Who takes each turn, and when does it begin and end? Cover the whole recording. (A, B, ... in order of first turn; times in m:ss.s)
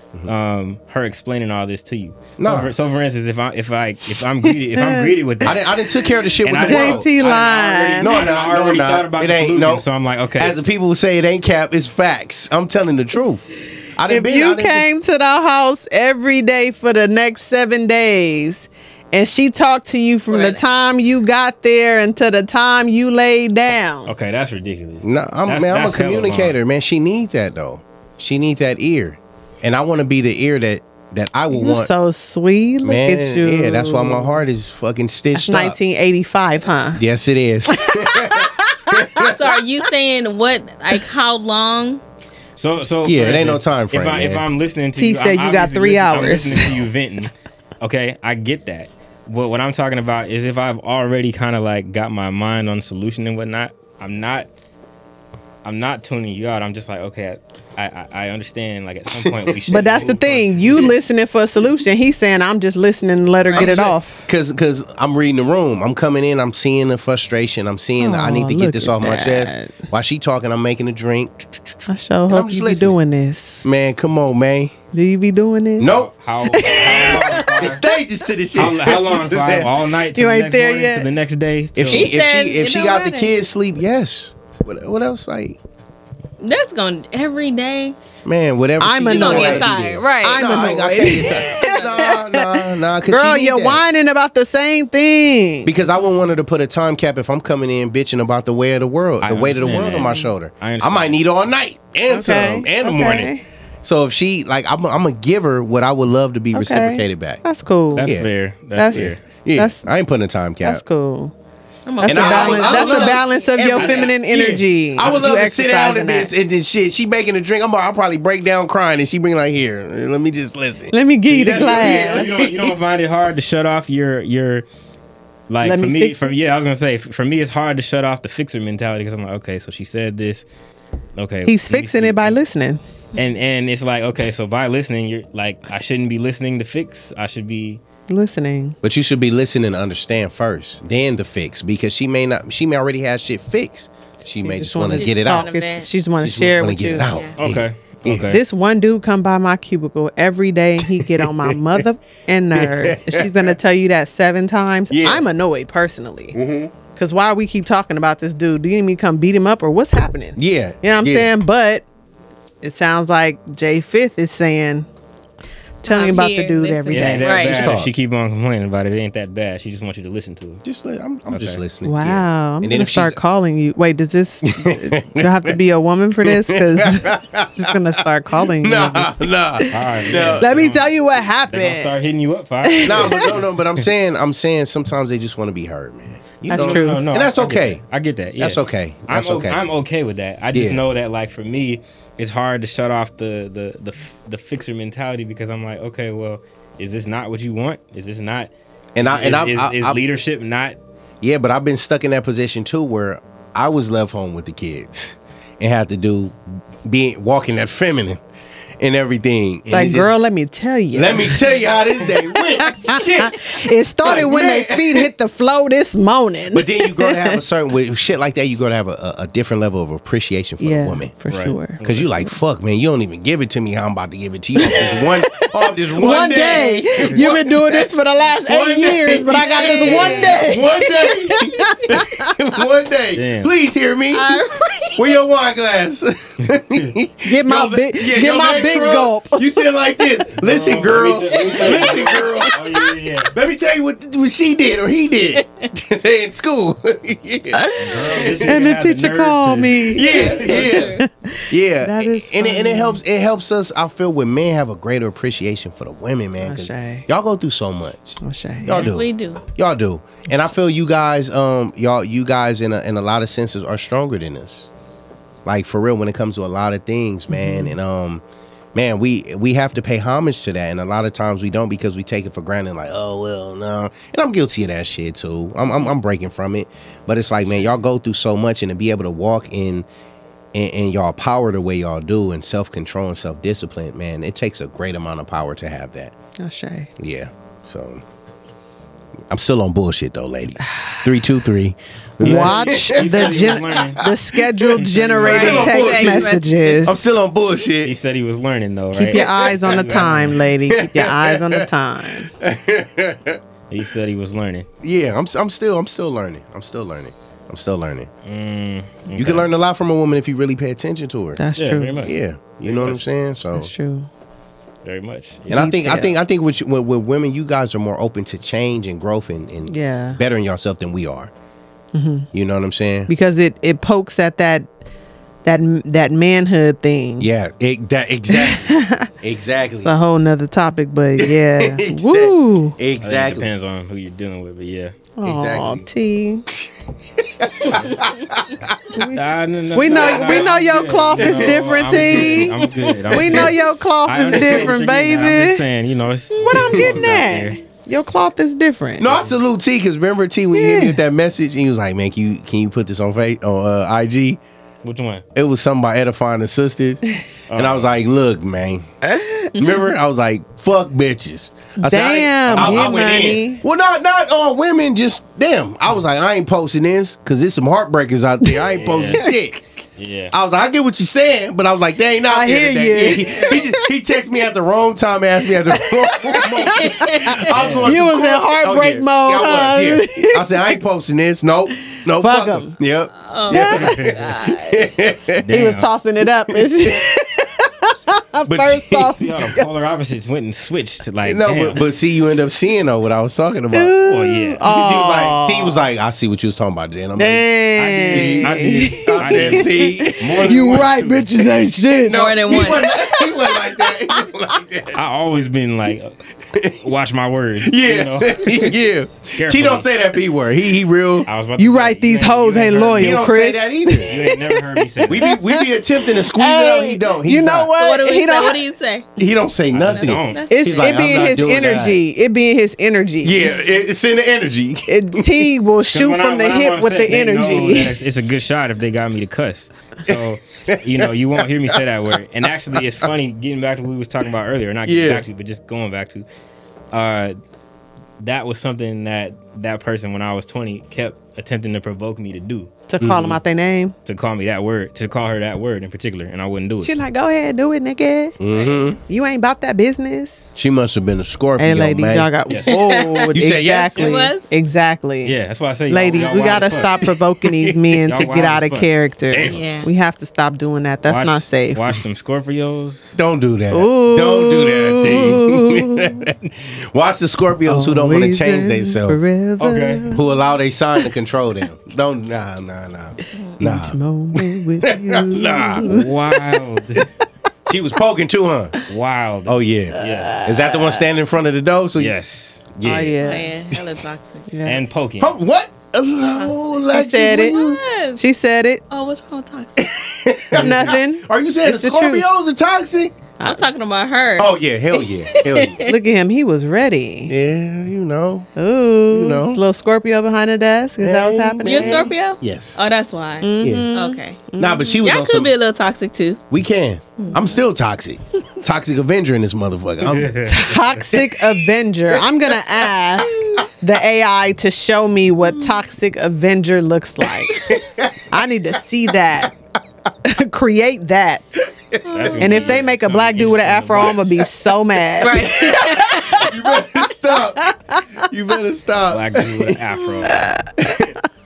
0:00.2-0:05.6 A
0:02.4-0:02.7 B
0:04.7-0:05.2 C
0:05.4-0:07.1 B
0:06.4-0:10.6 A
0:06.6-0:08.2 C
0:08.0-0:09.8 B
0:10.4-0:14.9 B
0:14.1-0:24.1 C
0:20.3-0:20.6 D
0:24.0-0:26.6 A
0:25.0-0:31.9 B
0:31.5-0:34.4 C
0:32.8-0:35.8 B
0:35.3-0:37.0 C
0:36.9-0:39.5 B
0:37.7-0:39.3 C
0:39.2-0:42.0 D
0:42.6-0:54.5 A
0:43.0-0:44.4 B
0:45.0-0:46.8 C
0:55.6-1:00.9 A
0:59.1-1:00.1 B
0:59.7-1:04.3 C
1:03.5-1:03.7 D
1:03.5-1:13.0 B
1:08.0-1:09.8 C
1:11.9-1:13.6 C
1:13.6-1:14.7 B
1:14.9-1:15.9 C
1:15.8-1:16.1 B
1:15.8-1:17.8 A
1:16.5-1:17.5 C
1:17.0-1:17.6 D
1:17.0-1:19.7 B
1:18.5-1:22.2 A
1:20.1-1:21.0 C
1:21.7-1:25.6 B
1:21.9-1:23.3 D
1:26.4-1:28.0 D
1:28.2-1:33.8 B
1:28.8-1:35.7 C
1:29.1-1:32.1 D
1:35.6-1:47.4 B
1:39.2-1:41.2 A
1:39.7-1:40.3 C
1:42.1-1:43.4 C
1:46.5-1:48.1 C
1:47.9-1:49.2 A
1:48.0-1:48.3 B
1:48.7-1:49.9 C
1:48.9-1:50.8 B
1:50.6-1:51.3 C
1:51.8-1:54.1 D
1:52.0-1:56.3 C
1:52.0-1:53.2 B
1:53.8-1:54.0 A
1:54.1-2:02.7 B
2:00.9-2:02.3 C
2:01.4-2:04.6 A
2:05.5-2:10.4 A
2:05.6-2:06.3 C
2:11.2-2:12.4 A
2:11.4-2:12.8 C
2:13.1-2:17.8 A
2:18.1-2:18.8 C
2:18.8-2:25.5 B
2:24.4-2:27.1 C
2:24.9-2:25.9 D
2:26.2-2:28.3 B
2:27.1-2:27.4 D
2:27.4-2:28.4 A
2:28.3-2:36.4 C
2:30.8-2:31.8 B
2:32.5-2:33.5 B
2:34.9-2:35.2 B
2:36.3-2:36.7 B
2:36.9-2:41.8 C
2:40.4-2:41.3 B
2:42.6-2:44.9 C
2:45.8-2:47.4 C
2:45.8-2:47.8 D
2:46.9-2:50.6 A
2:47.3-2:47.9 B
2:50.6-2:53.2 B
2:51.3-2:51.6 A
2:51.8-3:01.9 C
2:54.4-2:55.5 B
2:56.2-2:58.0 B
2:58.5-3:00.5 B
2:59.7-3:00.9 A
3:01.5-3:03.5 A
3:02.6-3:03.3 C
3:02.8-3:07.8 B
3:06.5-3:07.1 C
3:06.5-3:18.5 A
3:08.4-3:09.6 B
3:10.5-3:10.8 B
3:18.9-3:20.0 B
3:19.0-3:20.8 A
3:21.2-3:28.2 B
3:28.8-3:30.1 B
3:29.7-3:31.4 C
3:30.9-3:35.1 B
3:32.1-3:37.4 C
3:36.5-3:41.1 B
3:40.6-3:41.8 C
3:41.3-3:42.3 A
3:41.8-3:47.9 B
3:44.6-3:52.3 C
3:46.1-3:47.2 D
3:48.4-3:54.4 B
3:49.5-3:50.4 D
3:49.9-3:50.4 A
3:53.1-3:53.5 A
3:54.1-3:55.1 D
3:55.0-4:08.6 B
3:57.2-3:59.4 C
4:00.3-4:03.3 A
4:01.3-4:02.5 D
4:07.5-4:13.0 C
4:07.8-4:10.9 A
4:07.9-4:08.3 D
4:09.9-4:24.7 B
4:10.0-4:11.0 D
4:16.4-4:17.0 C
4:18.2-4:18.9 C
4:18.7-4:19.4 D
4:25.4-4:28.2 B
4:27.3-4:27.7 C
4:28.7-4:39.8 B
4:40.5-4:46.1 B
4:46.4-4:46.9 C
4:47.0-4:48.0 B
4:49.3-4:57.9 B
4:50.6-4:51.0 C
4:52.2-4:54.0 A
4:52.2-4:57.0 C
4:54.8-4:55.7 A
4:55.2-4:56.8 D
4:57.8-5:00.4 A
4:59.0-5:02.3 C
4:59.1-5:01.7 B
5:02.4-5:03.4 B
5:03.7-5:04.7 A
5:04.8-5:08.1 B
5:08.2-5:09.5 A
5:09.1-5:11.4 B
5:11.4-5:12.0 C
5:11.6-5:13.0 A
5:12.0-5:13.7 B
5:13.5-5:14.1 C
5:14.8-5:15.8 A
5:15.5-5:21.3 B
5:15.5-5:16.2 C
5:19.7-5:20.2 C
5:21.9-5:22.3 C
5:22.3-5:23.1 B
5:23.1-5:24.7 C
5:25.4-5:27.3 C
5:27.2-5:29.9 B
5:28.3-5:29.1 C
5:29.8-5:32.8 C
5:31.2-5:33.5 B
5:33.0-5:34.9 A
5:35.2-5:36.5 C
5:35.2-5:35.8 B
5:36.5-5:39.0 B
5:38.9-5:42.5 C
5:39.0-5:47.6 A
5:39.9-5:40.5 B
5:41.1-5:42.4 B
5:43.1-5:45.6 C
5:43.2-5:43.5 B
5:44.3-5:44.7 B
5:46.4-5:49.1 C
5:49.0-5:54.4 B
5:50.5-5:51.0 C
5:54.8-5:55.2 A
5:55.3-5:57.0 B
5:57.5-5:57.9 A
5:57.5-5:58.9 B
5:59.5-6:25.4 B
6:01.8-6:03.6 C
6:02.5-6:03.3 A
6:08.8-6:09.3 A
6:10.0-6:10.3 A
6:12.3-6:13.8 C
6:15.7-6:20.7 C
6:16.8-6:17.4 D
6:17.5-6:18.0 A
6:22.2-6:22.8 C
6:23.3-6:24.9 D
6:23.5-6:24.0 C
6:23.7-6:24.1 A
6:25.4-6:25.9 A
6:25.5-6:29.7 C
6:26.5-6:26.9 B
6:28.5-6:29.1 B
6:29.2-6:31.8 A
6:31.2-6:33.9 B
6:33.7-6:35.8 C
6:34.0-6:34.6 A
6:34.6-6:37.5 B
6:37.2-6:43.8 C
6:37.8-6:41.3 A
6:38.1-6:40.8 B
6:42.0-6:45.0 B
6:42.1-6:43.1 D
6:44.9-6:48.8 A
6:46.5-6:46.8 B
6:47.6-6:51.3 B
6:49.4-6:49.8 A
6:51.2-6:53.3 A
6:51.6-6:58.6 C
6:52.9-6:54.2 B
6:54.0-6:55.3 A
6:55.0-6:57.7 B
6:57.8-6:59.1 D
6:59.2-7:02.0 B
6:59.7-7:00.6 A
6:59.9-7:00.9 D
7:00.5-7:03.5 C
7:03.2-7:05.5 B
7:04.9-7:07.9 C
7:05.9-7:16.2 A
7:10.1-7:11.8 B
7:12.7-7:13.1 B
7:14.8-7:15.2 B
7:16.9-7:17.4 A
7:18.2-7:22.7 A
7:22.9-7:23.9 C
7:23.0-7:23.4 B
7:24.0-7:26.9 A
7:26.8-7:28.4 C
7:28.4-7:29.0 B
7:28.5-7:29.0 A
7:29.1-7:30.4 C
7:30.5-7:32.3 B
7:31.6-7:35.3 C
7:32.5-7:32.8 A
7:32.6-7:33.3 D
7:33.3-7:34.1 B
7:34.0-7:34.5 D
7:35.2-7:37.0 A
7:35.9-7:41.8 C
7:37.4-7:38.0 B
7:38.1-7:39.6 A
7:39.4-7:39.9 D
7:41.1-7:43.2 A
7:43.2-7:49.2 B
7:43.7-7:46.2 C
7:45.0-7:45.4 A
7:47.6-7:50.2 C
7:49.6-7:50.1 A
7:50.1-7:56.1 B
7:53.6-7:56.1 C
7:55.8-7:57.1 A
7:57.6-7:58.8 B
7:58.9-8:00.4 A
7:59.4-8:02.1 B
7:59.9-8:01.0 C
8:02.0-8:02.6 A
8:02.7-8:03.2 B
8:02.8-8:03.5 C
8:03.2-8:04.5 D
8:04.5-8:04.8 C
8:04.6-8:05.3 A
8:05.2-8:07.8 B
8:06.3-8:06.8 D
8:06.9-8:07.6 C
8:07.4-8:08.2 D
8:08.2-8:08.8 C
8:08.9-8:09.9 D
8:09.8-8:13.1 B
8:10.5-8:12.2 C
8:13.4-8:13.6 C
8:13.4-8:16.0 D
8:14.4-8:15.8 B
8:15.8-8:17.3 C
8:17.3-8:18.5 B
8:18.6-8:22.1 C
8:19.1-8:19.6 B
8:21.0-8:22.8 B
8:21.6-8:24.4 D
8:23.4-8:25.0 C
8:23.6-8:23.9 B
8:24.6-8:25.5 B
8:25.0-8:26.4 D
8:26.5-8:31.3 B
8:27.2-8:27.6 D
8:30.0-8:30.8 A
8:30.4-8:37.6 C
8:37.6-8:38.2 B
8:38.3-8:39.5 C
8:40.2-8:41.4 C
8:42.0-8:42.8 D
8:42.1-8:44.4 A
8:42.4-8:45.7 C
8:45.2-8:46.6 D
8:45.2-8:49.8 B
8:46.5-8:48.1 C
8:49.1-8:50.5 A
8:50.2-8:51.1 C
8:50.8-8:51.2 B